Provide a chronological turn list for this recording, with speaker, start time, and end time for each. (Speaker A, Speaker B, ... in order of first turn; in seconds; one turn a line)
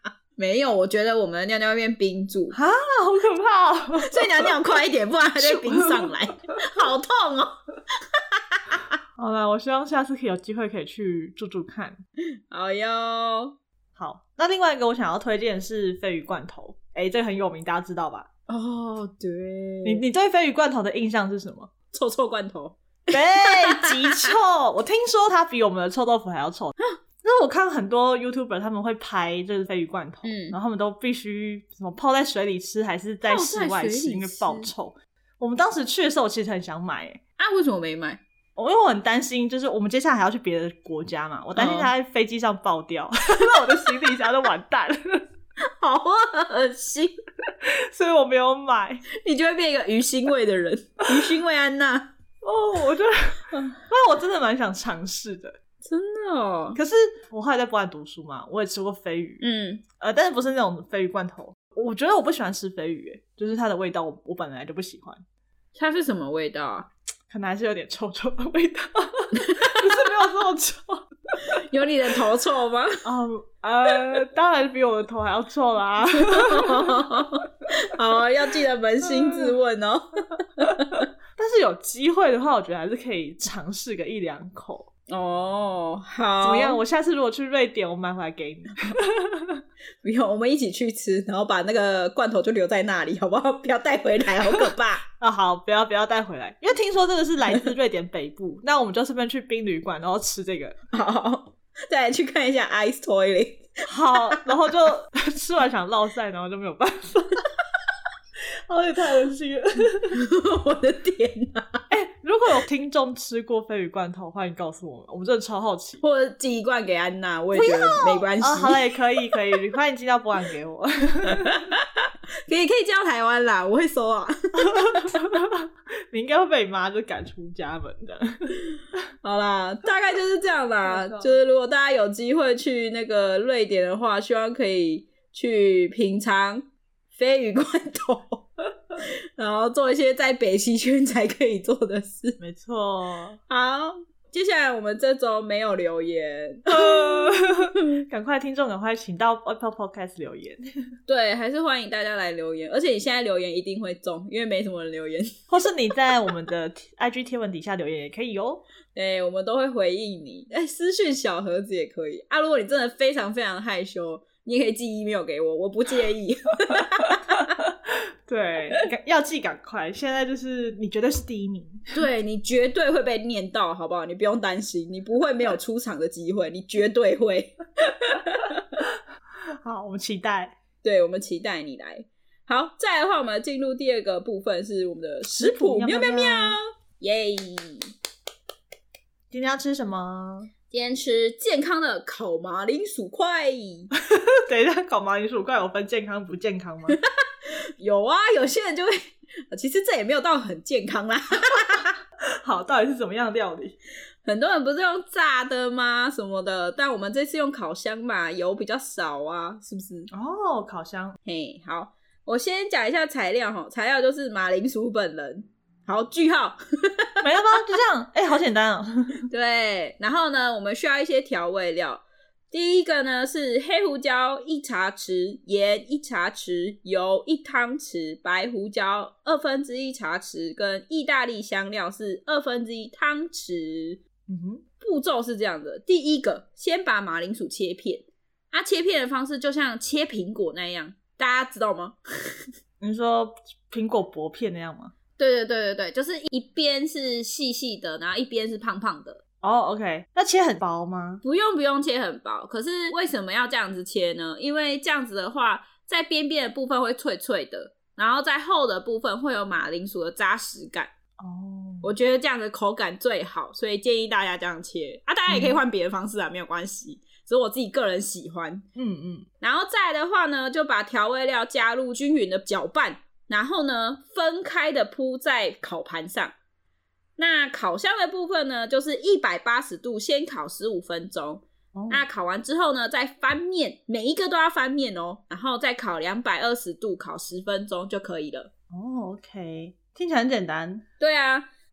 Speaker A: 0.4-2.6
Speaker B: 2.5-4.5
Speaker A: 4.0-7.6
Speaker B: 5.4-6.1
Speaker A: 8.1-8.8
Speaker B: 9.2-12.0
Speaker A: 12.5-13.5
Speaker B: 13.9-18.3
Speaker A: 18.5-20.0
Speaker B: 19.8-21.7
Speaker A: 21.9-24.3
Speaker B: 23.1-37.2
Speaker A: 30.2-30.6
Speaker A: 33.2-34.7
Speaker A: 37.4-38.2
Speaker B: 38.5-45.2
Speaker A: 41.5-41.9
Speaker A: 45.7-47.2
Speaker B: 47.6-49.0
Speaker A: 49.1-52.1
Speaker B: 52.4-55.6
Speaker A: 53.5-53.8
Speaker A: 55.8-56.8
Speaker B: 56.7-59.4
Speaker A: 59.4-59.8
Speaker B: 60.0-65.2
Speaker A: 65.7-66.9
Speaker B: 67.3-71.6
Speaker A: 69.3-70.0
Speaker A: 71.4-73.0
Speaker B: 73.0-77.4
Speaker A: 76.1-81.1
Speaker B: 79.0-79.5
Speaker B: 81.4-84.9
Speaker A: 85.1-86.8
Speaker B: 86.4-89.6
Speaker A: 90.0-95.0
Speaker B: 94.4-100.8
Speaker A: 100.9-104.4
Speaker B: 103.9-107.5
Speaker B: 108.7-110.2
Speaker A: 110.1-111.8
Speaker B: 111.9-116.0
Speaker A: 116.0-119.3
Speaker B: 117.5-121.6
Speaker A: 121.2-125.1
Speaker B: 124.6-128.6
Speaker A: 129.2-138.4
Speaker B: 130.8-131.3
Speaker A: 139.0-142.4
Speaker B: 142.4-143.4
Speaker A: 143.5-147.5
Speaker B: 146.7-150.6
Speaker A: 151.1-155.3
Speaker B: 155.5-158.6
Speaker A: 158.9-167.4
Speaker B: 167.2-172.0
Speaker A: 171.9-178.8
Speaker B: 179.6-180.5
Speaker A: 180.8-187.9
Speaker B: 185.3-186.6
Speaker B: 189.3-190.5
Speaker A: 190.7-193.9
Speaker B: 194.0-197.0
Speaker A: 196.9-201.9
Speaker B: 202.4-203.8
Speaker A: 204.2-210.1
Speaker B: 210.1-211.2
Speaker A: 211.2-217.2
Speaker B: 217.2-219.2
Speaker A: 219.3-234.0
Speaker B: 234.3-234.6
Speaker A: 234.8-242.5
Speaker B: 242.8-244.9
Speaker A: 245.2-249.2
Speaker B: 249.4-251.2
Speaker A: 251.2-260.9
Speaker B: 261.2-261.9
Speaker A: 261.8-268.6
Speaker B: 265.3-265.6
Speaker B: 268.8-269.3
Speaker A: 269.4-276.3
Speaker A: 277.2-288.5
Speaker B: 281.7-282.0
Speaker B: 288.7-290.8
Speaker A: 291.0-291.5